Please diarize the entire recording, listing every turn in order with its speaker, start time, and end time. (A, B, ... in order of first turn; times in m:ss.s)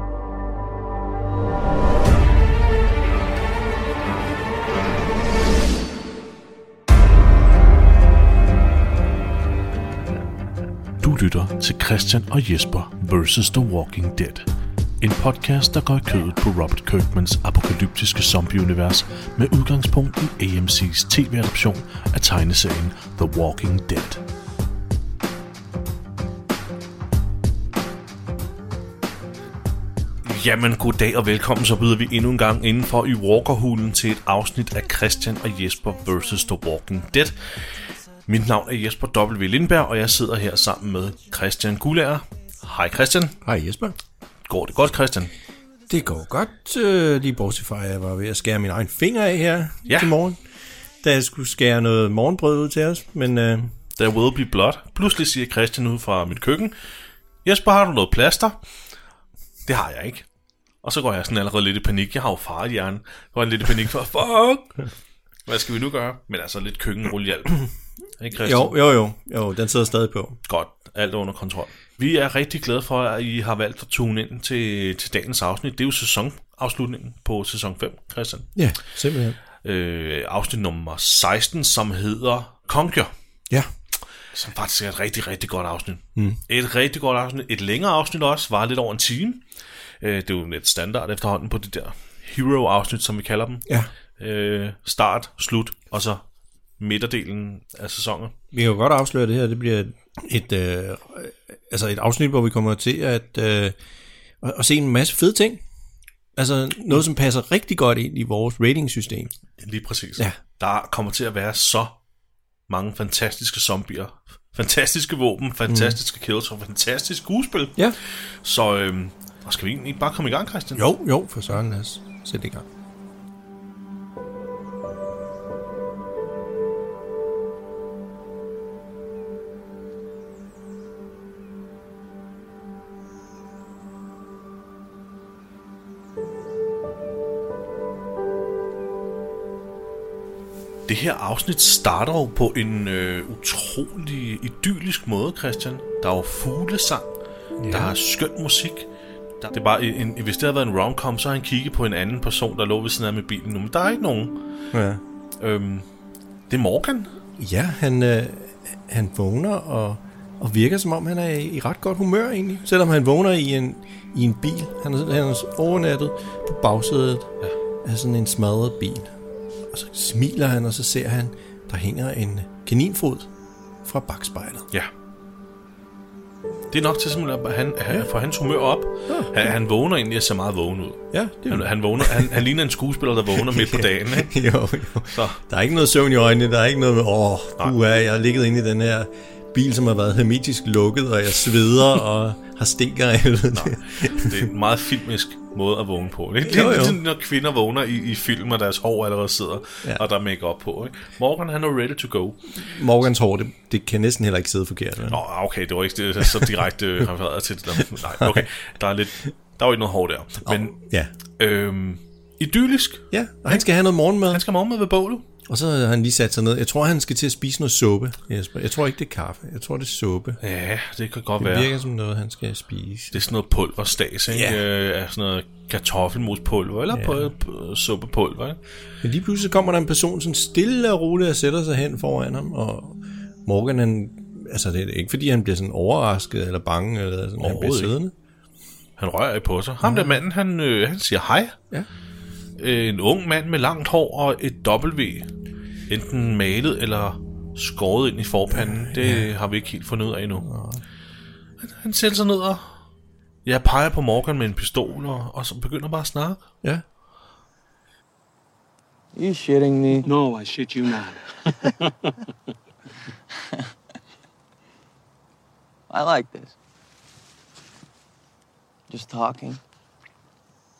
0:11.0-0:14.5 A
0:15.0-0:24.2 A
0:30.2-0:37.4 A
0:38.2-0:43.4 A
0:43.4-0:44.0 B
0:44.5-0:45.3 A
0:45.9-0:50.4 B
0:49.9-0:50.1 A
0:51.0-0:53.7 B
0:54.0-0:56.7 A
0:57.4-0:58.6 A
0:59.7-1:00.2 A
1:00.8-1:04.8 A
1:05.4-1:07.6 A
1:08.2-1:08.8 A
1:08.4-1:10.4 B
1:10.4-1:18.5 A
1:18.6-1:19.4 B
1:19.6-1:23.1 A
1:24.3-1:29.4 A
1:30.0-1:33.6 A
1:34.2-1:36.2 A
1:36.8-1:38.3 A
1:38.5-1:43.8 B
1:44.4-1:45.6 B
1:46.4-1:49.3 B
1:49.6-1:52.0 A
1:52.7-1:57.9 A
1:55.7-1:56.0 B
1:58.4-2:00.8 A
2:00.7-2:02.6 B
2:20.9-2:27.1 A
2:27.6-2:27.9 B
2:27.7-2:28.9 A
2:29.4-2:34.4 A
2:34.7-2:35.0 B
2:35.4-2:35.9 A
2:36.5-2:37.1 A
2:37.4-2:47.3 B
2:47.8-2:49.1 B
2:49.7-2:53.3 B
2:53.8-2:54.6 B
2:56.7-3:04.3 A
2:59.1-2:59.5 B
3:01.1-3:02.3 B
3:03.3-3:14.5 B
3:05.1-3:05.4 A
3:13.5-3:22.6 A
3:16.4-3:17.0 B
3:22.6-3:25.2 B
3:25.1-3:30.7 A
3:27.8-3:28.5 B
3:30.4-3:31.1 B
3:31.4-3:33.6 A
3:33.1-3:34.4 B
3:34.3-3:35.2 A
3:35.5-3:40.4 B
3:40.4-3:41.7 A
3:41.4-3:43.2 B
3:43.1-3:48.6 A
3:44.3-3:44.6 B
3:46.9-3:47.3 B
3:49.0-3:58.1 B
3:57.4-3:58.0 A
3:59.0-4:01.5 A
3:59.8-4:00.1 B
4:02.6-4:05.3 A
4:05.9-4:10.4 A
4:08.5-4:09.3 B
4:10.4-4:10.8 B
4:11.6-4:12.8 A
4:13.4-4:16.4 A
4:19.1-4:20.1 C
4:20.0-4:22.5 D
4:25.9-4:26.6 C
4:28.9-4:29.6 C